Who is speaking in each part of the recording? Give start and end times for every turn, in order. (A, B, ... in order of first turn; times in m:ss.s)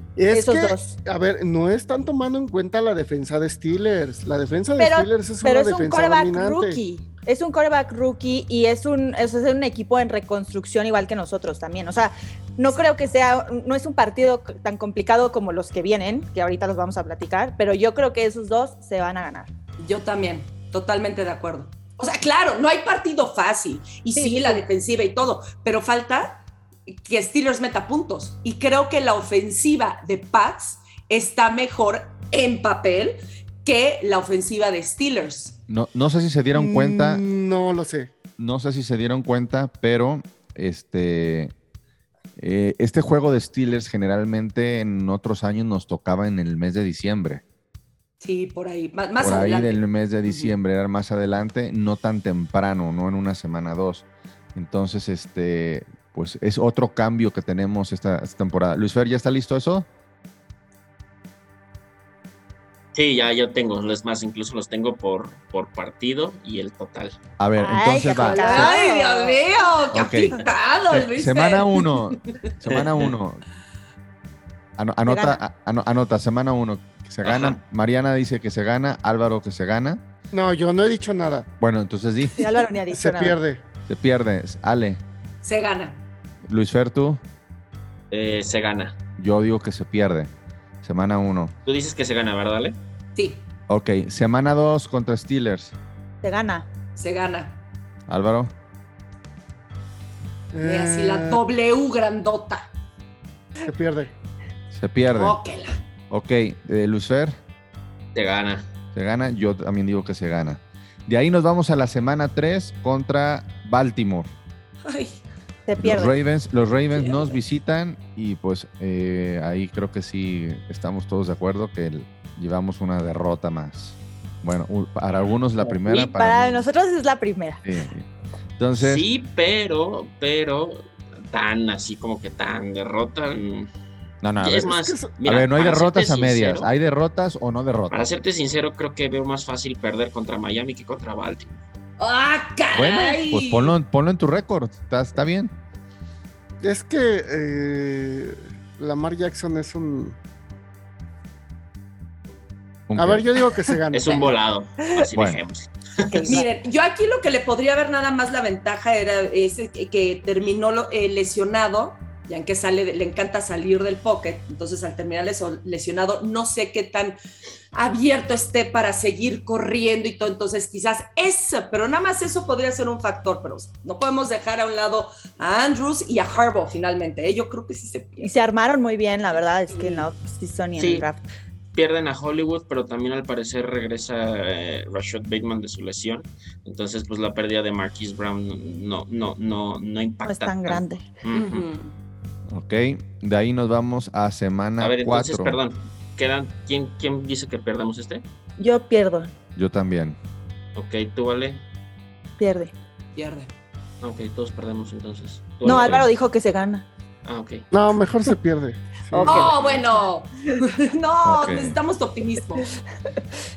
0:00.2-0:06.8 A
0:00.3-0:00.9 B
0:04.8-0:19.5 B
0:19.8-0:35.6 C
0:24.2-0:24.6 B
0:35.7-0:37.2 D
0:36.5-0:38.1 A
0:38.4-0:41.5 D
0:42.4-0:47.4 D
0:48.2-0:50.6 C
0:49.2-0:59.9 D
1:02.9-1:07.2 E
1:07.4-1:08.7 D
1:07.6-1:09.5 B
1:08.3-1:12.4 C
1:09.9-1:10.4 D
1:10.9-1:13.4 D
1:12.7-1:13.2 E
1:14.8-1:20.0 D
1:15.1-1:15.4 B
1:17.2-1:17.6 E
1:20.3-1:21.5 A
1:21.6-1:22.4 D
1:22.4-1:23.4 B
1:22.9-1:23.6 A
1:23.9-1:25.0 D
1:25.4-1:26.0 C
1:26.5-1:27.2 D
1:28.1-1:29.0 E
1:29.2-1:30.3 D
1:30.8-1:31.5 D
1:31.7-1:32.8 E
1:33.2-1:33.4 C
1:33.7-1:35.8 D
1:36.2-1:36.7 B
1:37.0-1:37.6 C
1:38.1-1:38.5 D
1:40.5-1:41.4 A
1:40.6-1:42.7 C
1:43.6-1:44.1 A
1:44.7-1:45.4 D
1:45.1-1:45.8 C
1:46.1-1:47.4 D
1:48.2-1:48.7 E
1:48.9-1:54.3 D
1:54.8-1:55.2 C
1:55.7-1:56.1 B
1:55.8-2:06.7 D
1:56.9-1:57.4 C
2:05.8-2:07.6 B
2:07.6-2:08.1 D
2:08.6-2:09.0 D
2:08.8-2:13.7 E
2:14.2-2:18.1 D
2:14.4-2:16.7 E
2:14.6-2:15.1 A
2:17.9-2:21.6 E
2:22.0-2:23.8 C
2:22.7-2:25.5 D
2:26.6-2:30.2 A
2:32.9-2:33.2 D
2:33.0-2:34.4 A
2:33.9-2:36.1 E
2:35.1-2:35.4 D
2:36.1-2:36.5 B
2:36.2-2:47.2 C
2:47.7-2:58.3 C
2:58.2-3:01.2 B
2:59.3-3:00.1 C
3:00.8-3:01.1 E
3:01.8-3:11.7 E
3:10.2-3:11.0 B
3:11.3-3:12.0 C
3:12.5-3:15.6 D
3:14.8-3:18.2 E
3:18.6-3:19.3 B
3:19.6-3:20.2 D
3:20.8-3:21.6 E
3:22.4-3:22.7 B
3:23.2-3:23.5 C
3:24.0-3:26.1 E
3:25.6-3:26.8 B
3:27.2-3:27.7 E
3:27.7-3:29.6 A
3:29.1-3:29.5 B
3:29.2-3:32.8 C
3:29.4-3:29.9 E
3:31.2-3:31.8 D